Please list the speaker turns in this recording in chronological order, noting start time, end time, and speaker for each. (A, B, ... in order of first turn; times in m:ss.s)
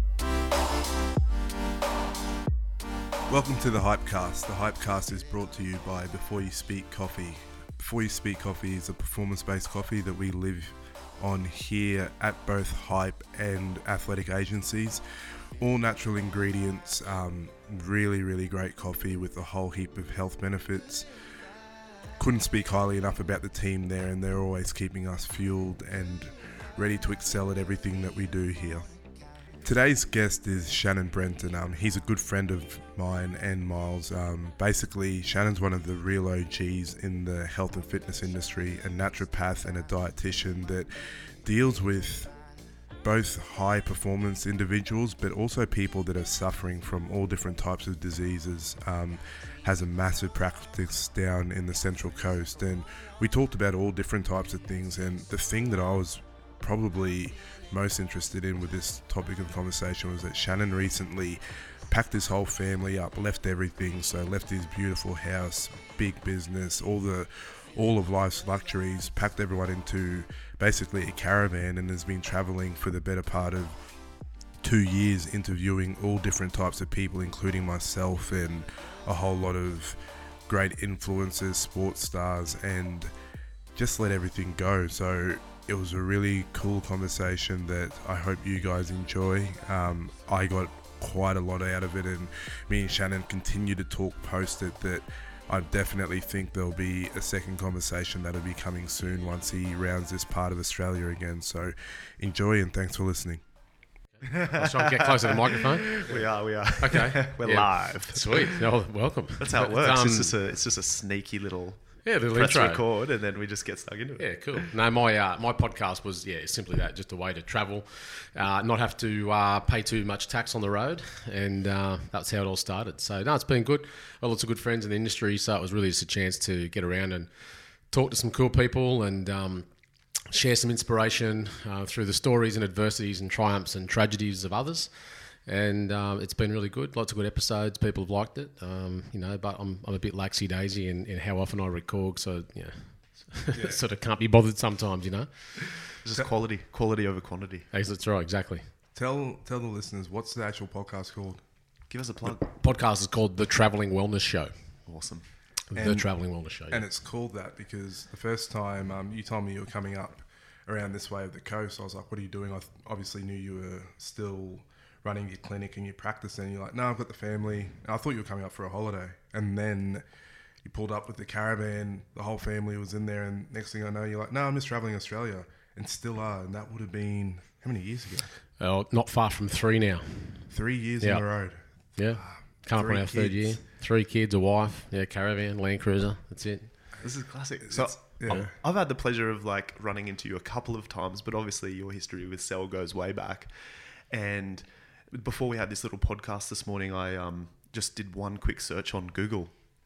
0:03.3-0:15.0 A
0:15.6-0:21.1 A
0:22.2-0:28.9 A
0:29.6-0:42.3 A
0:43.0-1:13.8 A
1:14.6-1:23.1 A
1:23.8-1:43.4 A
1:44.2-1:46.1 B
1:44.2-1:48.6 C
1:46.8-1:50.3 B
1:49.4-1:54.7 C
1:52.0-1:52.8 B
1:54.2-2:07.3 B
2:07.9-2:09.7 B
2:10.3-2:14.9 B
2:15.4-2:25.9 B
2:23.5-2:23.8 A
2:25.9-2:27.7 C
2:27.7-2:28.7 B
2:28.9-2:31.4 A
2:31.9-2:32.5 C
2:32.2-2:34.5 B
2:34.9-2:35.2 C
2:35.7-2:36.8 B
2:35.7-2:36.1 A
2:36.7-2:50.0 A
2:50.6-2:58.3 A
2:58.6-3:00.5 B
3:00.5-3:01.6 A
3:02.0-3:06.7 B
3:02.1-3:03.6 A
3:07.0-3:13.5 C
3:07.7-3:08.5 A
3:14.1-3:19.5 C